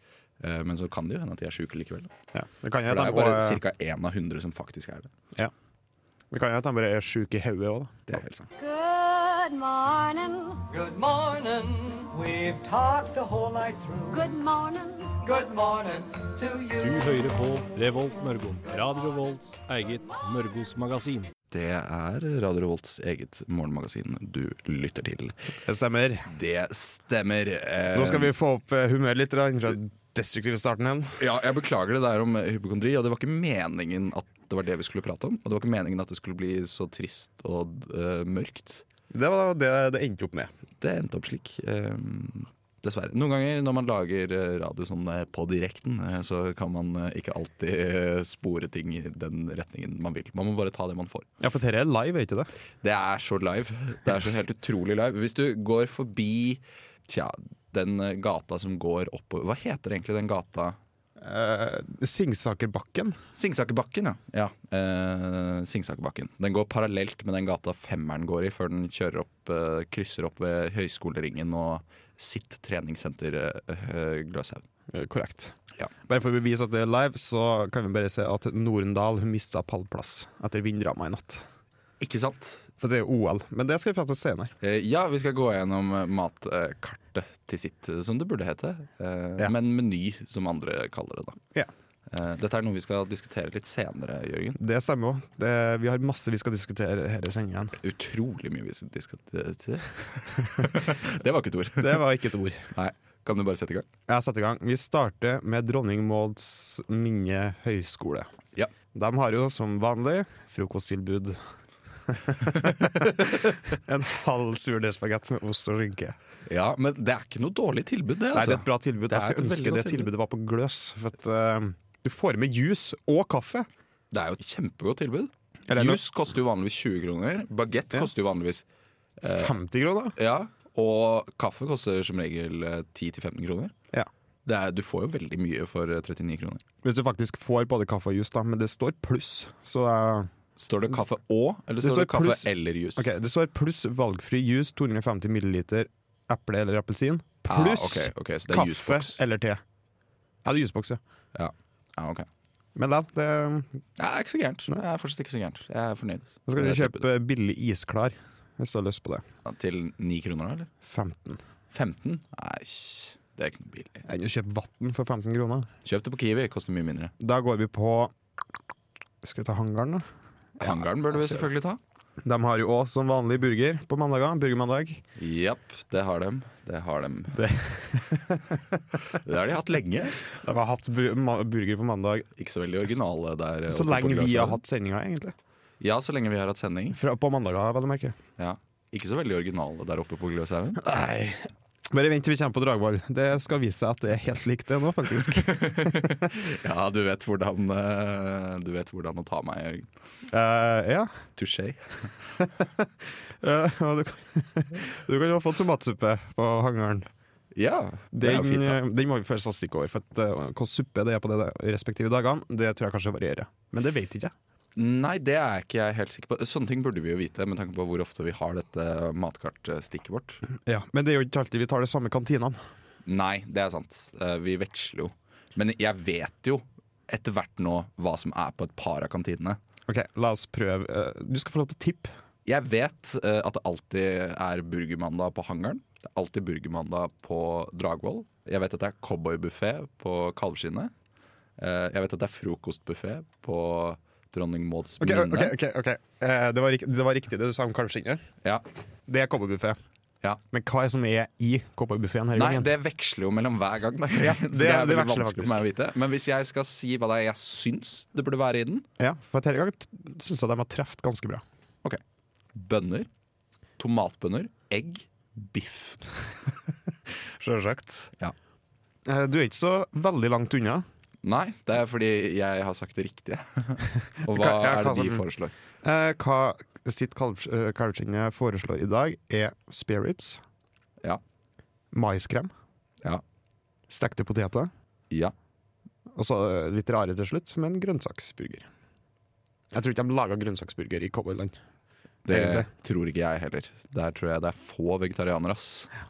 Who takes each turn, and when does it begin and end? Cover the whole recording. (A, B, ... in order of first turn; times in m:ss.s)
0:00.4-0:02.1 A
0:02.3-0:03.6 B
0:02.9-0:05.1 A
0:06.3-0:08.2 B
0:08.1-0:08.5 A
0:08.6-0:10.6 C
0:10.7-0:14.2 D
0:14.1-0:15.2 C
0:15.2-0:17.0 D
0:16.8-0:21.3 E
0:21.5-0:25.4 A
0:25.6-0:26.3 B
0:26.3-0:28.3 A
0:27.9-0:31.2 B
0:31.2-0:38.8 A
0:39.1-0:40.5 B
0:40.8-0:51.3 A
0:51.4-0:52.5 B
0:52.8-1:00.8 A
1:01.2-1:03.2 B
1:03.3-1:14.6 A
1:14.9-1:21.5 B
1:22.0-1:22.7 A
1:22.8-1:24.5 B
1:24.6-1:31.4 A
1:32.1-1:34.6 A
1:34.6-1:37.8 B
1:37.8-1:42.1 A
1:41.8-1:42.7 B
1:42.7-1:43.9 A
1:44.1-1:48.3 B
1:48.9-1:51.4 B
1:52.1-1:56.2 B
1:52.6-1:53.6 A
1:56.5-2:00.1 A
1:58.3-2:03.7 B
2:04.1-2:08.6 A
2:05.7-2:06.0 B
2:09.2-2:09.5 A
2:09.2-2:10.2 B
2:10.2-2:13.7 A
2:14.5-2:16.6 A
2:16.8-2:20.3 B
2:20.6-2:23.1 A
2:21.8-2:29.6 B
2:27.5-2:29.2 A
2:30.4-2:31.0 B
2:31.3-2:32.3 A
2:32.8-2:33.7 B
2:34.0-2:37.0 A
2:36.5-2:39.2 B
2:39.4-2:40.7 A
2:40.8-2:41.4 B
2:41.7-2:44.1 A
2:44.1-2:45.7 B
2:45.8-2:47.1 A
2:47.2-2:48.1 B
2:49.2-2:50.1 B
2:50.6-2:51.4 B
2:50.6-2:51.8 A
2:52.2-2:55.0 B
2:55.2-2:57.5 A
2:57.3-2:59.0 B
2:59.0-3:00.2 A
3:00.3-3:02.3 B
3:02.4-3:04.6 A
3:03.7-3:05.4 B
3:05.8-3:07.0 A
3:06.9-3:08.2 B
3:08.4-3:10.8 A
3:10.8-3:16.3 B
3:15.4-3:19.9 A
3:20.3-3:21.1 B
3:21.4-3:22.1 A
3:22.4-3:22.9 B
3:23.4-3:27.1 B
3:27.5-3:28.8 A
3:28.1-3:34.3 B
3:34.8-3:40.5 A
3:40.6-3:42.6 B
3:43.1-3:49.6 A
3:49.9-3:52.1 B
3:52.5-4:00.9 A
4:01.6-4:05.6 A
4:05.0-4:08.2 B
4:09.1-4:09.8 B
4:10.5-4:12.7 B
4:12.4-4:18.9 A
4:14.2-4:15.6 B
4:19.0-4:21.4 B
4:22.5-4:23.1 A
4:23.8-4:26.0 A
4:27.4-4:28.1 B
4:29.1-4:30.9 B
4:31.2-4:35.5 A
4:34.3-4:35.3 B
4:35.8-4:40.4 B
4:41.9-4:42.5 B
4:43.9-4:44.7 B
4:46.2-4:48.7 B
4:49.7-4:51.6 B
4:52.3-4:55.9 A
4:52.3-4:52.7 B